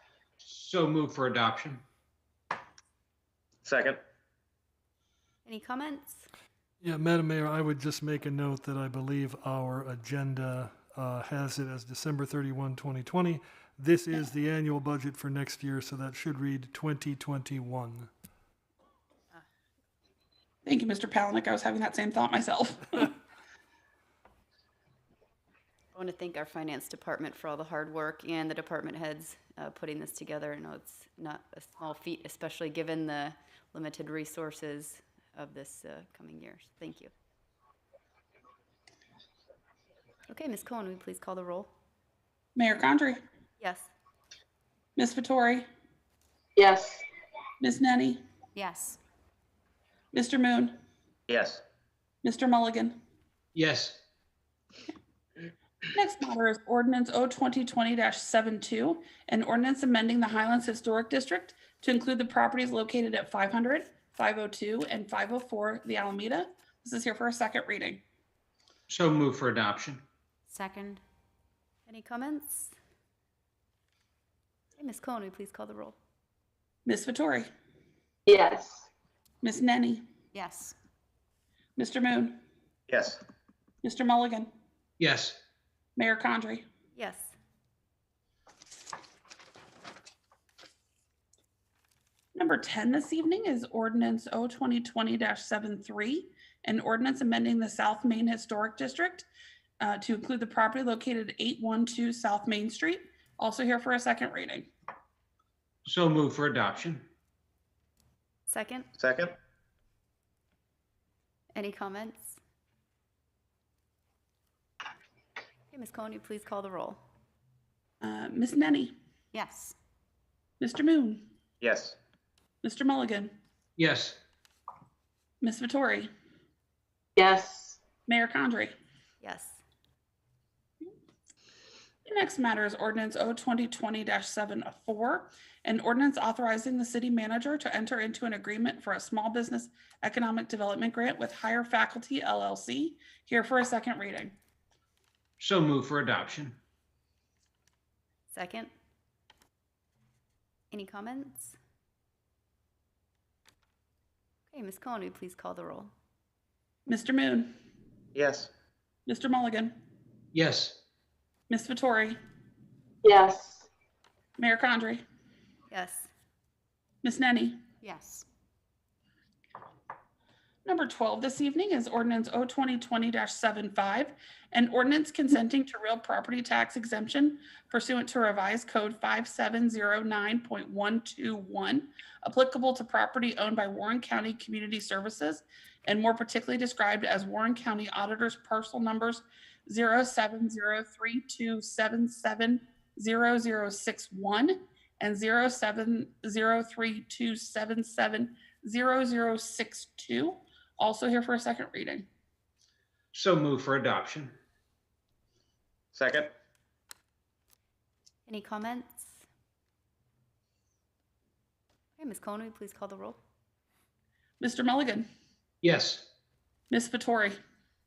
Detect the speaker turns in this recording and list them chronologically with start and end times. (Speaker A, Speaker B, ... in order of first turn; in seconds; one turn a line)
Speaker A: 0.4-1.8
Speaker B: 3.6-4.0
Speaker C: 5.5-6.3
Speaker D: 6.8-18.1
Speaker E: 20.6-23.2
Speaker C: 25.9-37.1
Speaker C: 40.3-41.7
Speaker E: 42.6-43.2
Speaker C: 43.6-43.9
Speaker E: 45.0-45.7
Speaker F: 46.6-47.0
Speaker E: 47.6-48.2
Speaker C: 48.6-49.0
Speaker E: 50.1-50.8
Speaker B: 51.3-51.6
Speaker E: 52.2-53.0
Speaker A: 53.5-54.0
Speaker E: 55.9-68.0
Speaker A: 68.9-70.0
Speaker C: 70.5-71.0
Speaker C: 71.9-72.8
Speaker C: 74.8-76.0
Speaker E: 76.9-77.5
Speaker F: 78.3-78.9
Speaker E: 79.4-80.0
Speaker C: 80.3-80.7
Speaker E: 81.8-82.4
Speaker B: 82.9-83.2
Speaker E: 83.8-84.5
Speaker A: 85.0-85.4
Speaker E: 86.0-86.7
Speaker C: 87.0-87.3
Speaker E: 92.3-99.3
Speaker E: 99.8-104.7
Speaker A: 105.9-107.1
Speaker C: 108.5-108.9
Speaker B: 109.0-109.4
Speaker C: 111.5-112.4
Speaker C: 115.7-117.0
Speaker E: 118.0-118.9
Speaker C: 119.3-119.8
Speaker E: 120.6-121.2
Speaker B: 121.6-122.0
Speaker E: 122.6-123.3
Speaker A: 123.8-124.2
Speaker E: 125.4-126.1
Speaker F: 127.2-127.8
Speaker E: 128.1-128.7
Speaker C: 129.2-129.6
Speaker E: 132.1-144.4
Speaker A: 145.4-146.6
Speaker C: 148.3-148.7
Speaker C: 150.7-151.6
Speaker C: 154.5-155.9
Speaker E: 156.9-157.5
Speaker B: 158.2-158.5
Speaker E: 159.1-159.8
Speaker A: 160.3-160.8
Speaker E: 161.5-162.2
Speaker F: 163.0-163.7
Speaker E: 164.4-165.0
Speaker C: 165.7-166.1
Speaker E: 167.0-167.6
Speaker C: 167.8-168.3
Speaker E: 170.7-202.1
Speaker A: 203.1-204.3
Speaker B: 205.9-206.3
Speaker C: 208.3-209.2
Speaker C: 212.0-213.2
Speaker E: 214.4-215.1
Speaker A: 215.6-216.1
Speaker E: 216.7-217.4